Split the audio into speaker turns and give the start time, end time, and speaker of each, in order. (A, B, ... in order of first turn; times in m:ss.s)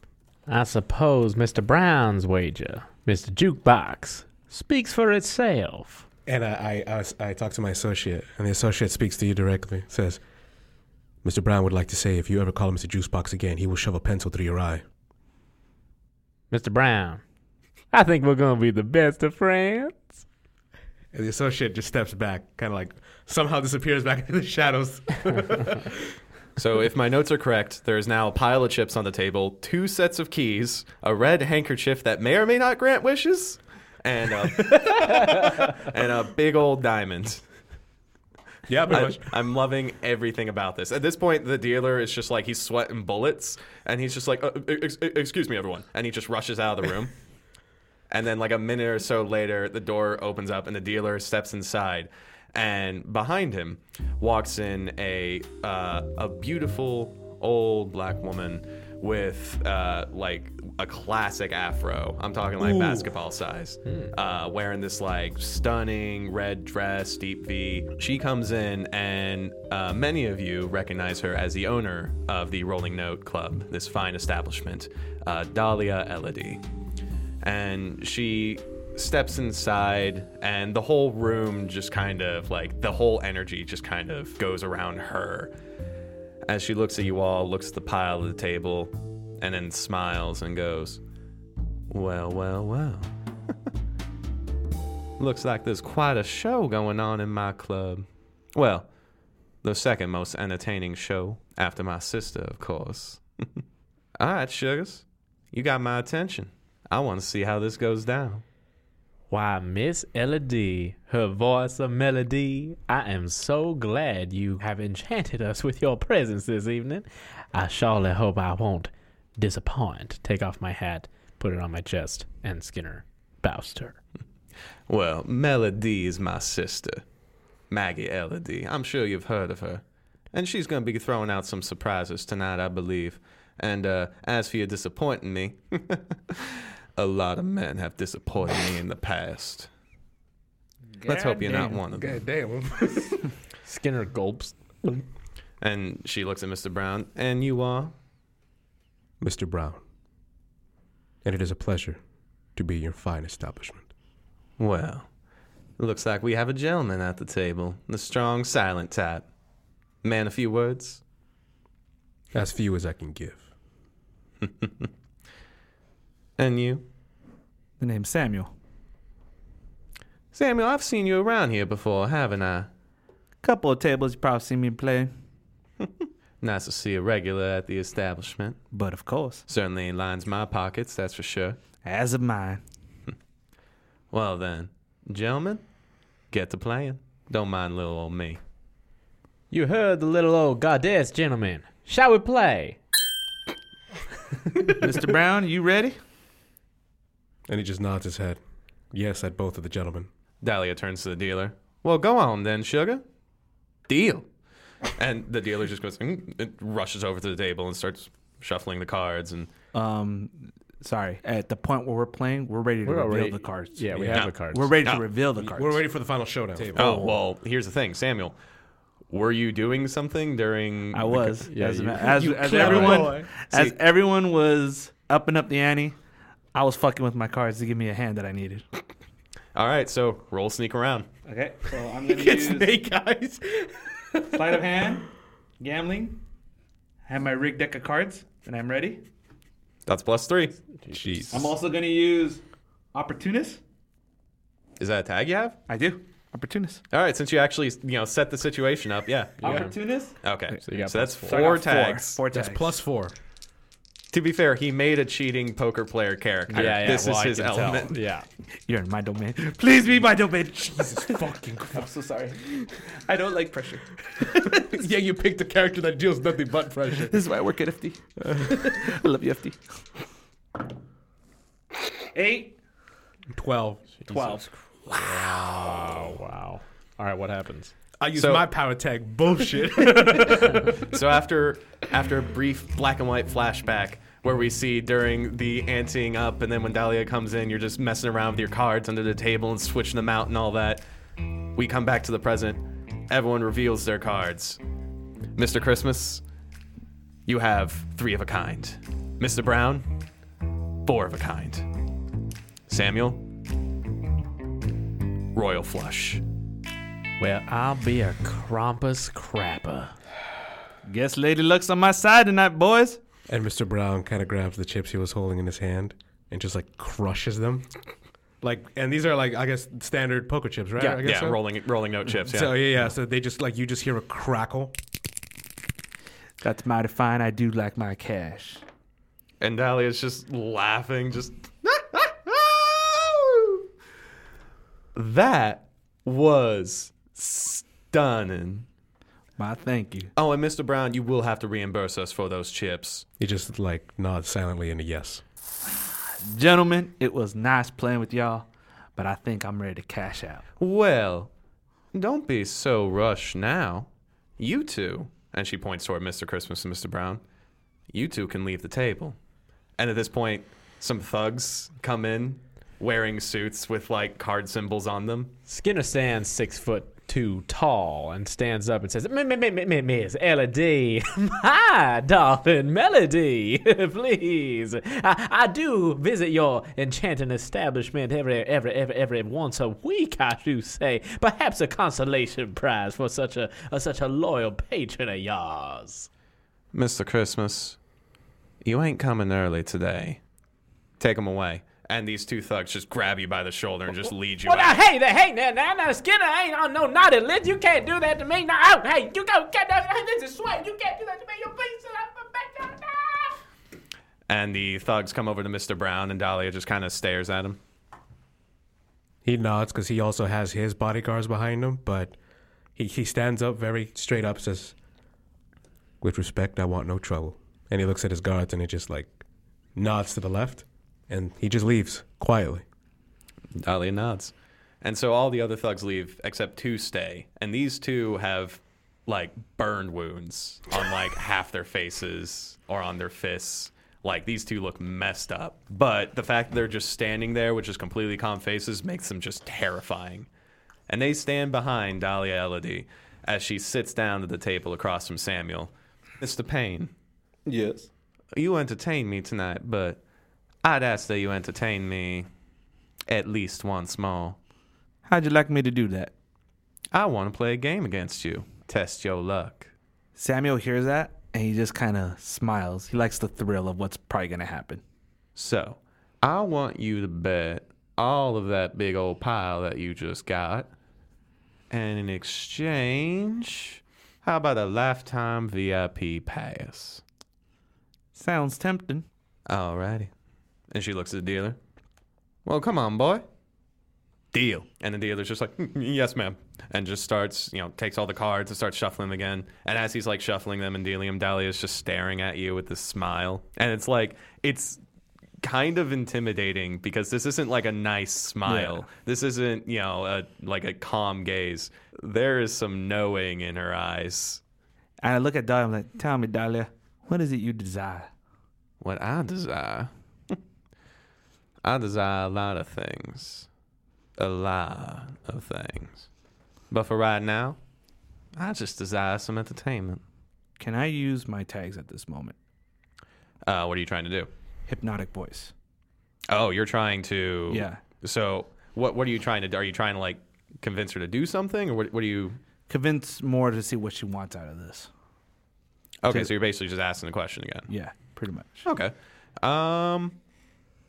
0:00.5-0:06.0 A
0:06.2-0:10.2 B
0:11.2-0:14.8 B
0:16.5-0:17.2 A
0:17.9-0:20.2 A
0:21.1-0:26.0 B
0:26.6-0:37.4 C
0:38.7-0:39.3 B
0:38.9-0:47.1 C
0:48.1-1:16.6 C
1:02.6-1:03.1 B
1:17.4-1:25.5 C
1:26.4-1:31.0 C
1:31.9-1:33.1 C
1:35.2-1:38.9 C
1:39.6-1:43.2 C
1:44.2-1:48.4 C
1:49.3-2:04.0 A
2:04.9-2:07.0 C
2:07.7-2:19.7 C
2:21.0-2:21.8 D
2:21.0-2:22.2 C
2:22.0-2:23.2 B
2:23.6-2:25.0 A
2:25.6-2:27.9 C
2:29.2-2:29.8 B
2:31.2-2:32.0 B
2:32.6-2:33.8 B
2:34.6-2:35.1 C
2:35.8-2:39.2 C
2:40.0-2:41.0 C
2:42.3-2:43.4 B
2:44.4-2:44.9 C
2:46.4-2:46.8 C
2:47.8-2:48.5 D
2:50.3-2:52.7 C
2:53.4-2:55.1 D
2:56.4-2:58.6 C
2:58.7-2:59.4 D
2:59.5-3:01.6 C
3:01.8-3:02.6 D
3:04.1-3:05.6 C
3:06.3-3:08.4 C
3:09.5-3:12.8 A
3:14.6-3:16.0 D
3:17.5-3:18.4 B
3:18.9-3:20.1 B
3:20.4-3:23.0 C
3:23.9-3:24.3 C
3:24.8-3:29.5 C
3:29.7-3:35.8 D
3:32.8-3:34.7 A
3:33.9-3:34.2 B
3:34.1-3:35.0 C
3:35.4-3:37.0 B
3:36.7-3:37.1 D
3:36.7-3:38.4 C
3:39.1-3:41.4 C
3:40.9-3:46.0 D
3:41.4-3:42.4 A
3:42.2-3:43.7 C
3:42.4-3:43.3 B
3:46.5-3:48.6 D
3:49.5-3:51.1 C
3:51.2-3:52.7 D
3:52.1-3:54.6 B
3:54.3-3:55.1 D
3:55.6-3:56.2 D
3:57.0-3:59.0 D
3:59.8-4:00.6 C
4:00.8-4:01.3 A
4:00.9-4:01.5 B
4:01.3-4:02.4 D
4:02.9-4:03.6 D
4:04.8-4:05.6 C
4:05.7-4:06.8 D
4:06.9-4:09.7 C
4:09.4-4:10.2 D
4:09.4-4:09.7 A
4:10.2-4:12.2 C
4:10.6-4:11.5 A
4:11.2-4:12.7 D
4:12.3-4:13.1 B
4:14.1-4:18.0 C
4:16.5-4:18.2 A
4:18.6-4:24.8 D
4:20.8-4:21.9 B
4:24.4-4:27.2 B
4:27.1-4:29.6 D
4:28.2-4:28.6 B
4:32.1-4:32.6 D
4:33.3-4:33.9 B
4:34.1-4:35.8 D
4:34.1-4:37.7 A
4:38.0-4:40.9 B
4:38.2-4:38.5 C
4:40.3-4:50.8 C
4:51.5-4:54.6 C
4:55.4-4:56.2 C
4:57.2-5:00.0 C
5:00.8-5:01.7 C
5:02.7-5:03.2 C
5:05.3-5:06.2 C
5:07.2-5:10.0 A
5:10.8-5:13.0 D
5:13.3-5:17.6 B
5:18.4-5:21.4 B
5:21.0-5:22.6 C
5:22.2-5:24.7 B
5:26.4-5:28.6 D
5:29.4-5:33.6 C
5:34.9-5:38.7 C
5:39.4-5:40.1 D
5:40.2-5:43.0 C
5:43.2-5:45.2 B
5:46.2-5:50.4 D
5:50.6-5:51.3 C
5:51.9-5:57.2 C
5:57.9-5:59.2 C
5:59.8-6:05.3 C
6:05.5-6:26.1 A
6:26.7-6:27.8 C
6:28.6-6:30.2 C
6:31.0-6:34.8 C
6:34.4-6:43.4 A
6:44.3-6:47.6 C
6:49.2-6:52.1 B
6:52.8-6:54.7 B
6:56.0-6:59.2 B
6:59.8-7:02.6 B
7:03.6-7:20.3 C
7:20.9-7:26.9 C
7:27.4-7:27.9 D
7:28.3-7:30.0 C
7:30.6-7:32.3 C
7:33.1-7:34.4 C
7:35.0-7:36.1 D
7:36.9-7:39.7 C
7:40.2-7:44.8 D
7:45.4-7:50.7 C
7:51.7-7:57.0 C
7:58.1-7:59.0 D
7:59.5-8:00.1 C
8:00.7-8:01.6 C
8:02.4-8:03.2 C
8:04.3-8:04.6 D
8:04.4-8:14.8 C
8:15.4-8:24.4 C
8:18.4-8:18.8 D
8:25.0-8:28.1 D
8:28.8-8:30.4 C
8:31.6-8:33.5 C
8:34.2-8:36.1 C
8:36.7-8:37.6 C
8:38.4-8:40.0 C
8:40.6-8:42.4 D
8:43.4-8:44.3 C
8:44.7-8:45.5 D
8:46.3-8:52.4 C
8:47.5-8:47.8 D
8:52.7-8:54.9 D
8:56.0-8:57.7 C
8:57.7-8:58.7 D
8:58.6-9:00.2 C